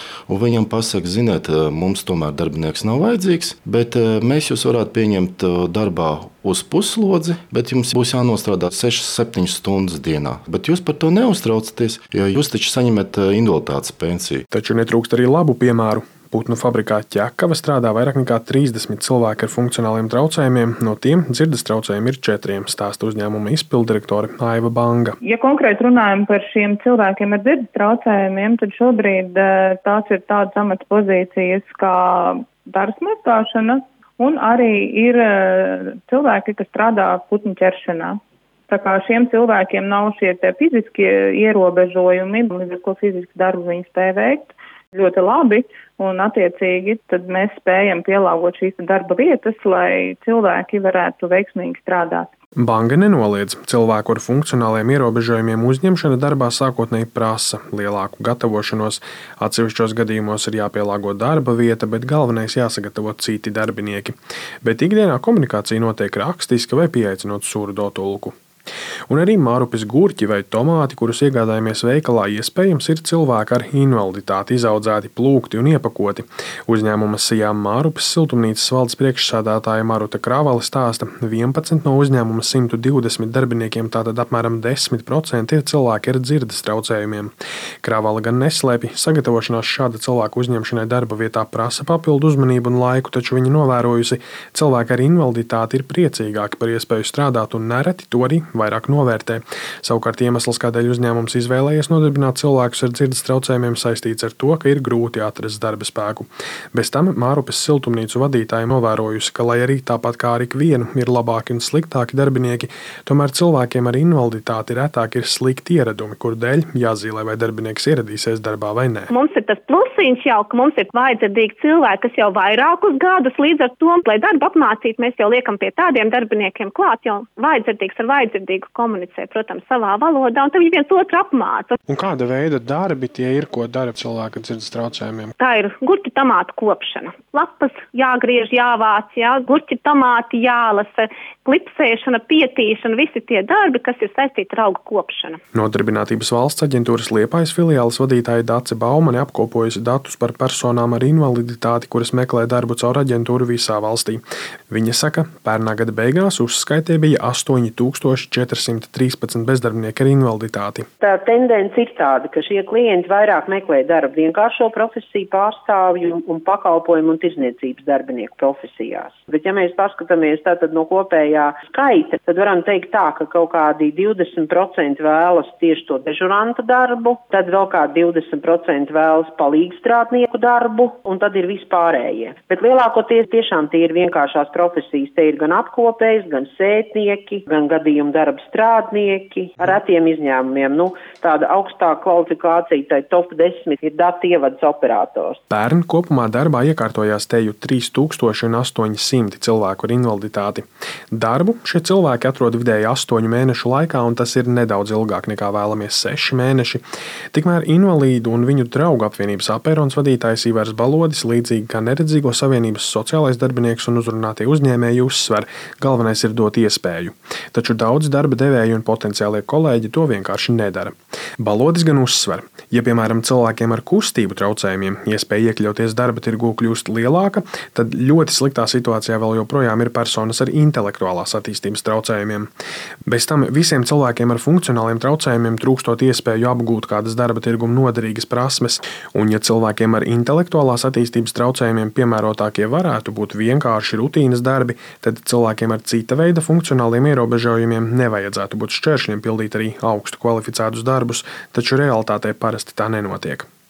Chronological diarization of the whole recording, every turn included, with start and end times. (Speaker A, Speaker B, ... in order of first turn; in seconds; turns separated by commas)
Speaker A: 0.3-14.4, Speaker B: 14.5-25.2, Speaker C: 25.2-38.2, Speaker C: 38.7-52.3, Speaker B: 52.6-68.3, Speaker B: 69.1-87.3, Speaker B: 87.8-119.1, Speaker D: 119.1-131.8, Speaker B: 131.9-135.3, Speaker D: 135.4-145.4, Speaker B: 145.5-160.9, Speaker E: 161.0-195.4, Speaker B: 195.5-232.5, Speaker B: 233.1-253.5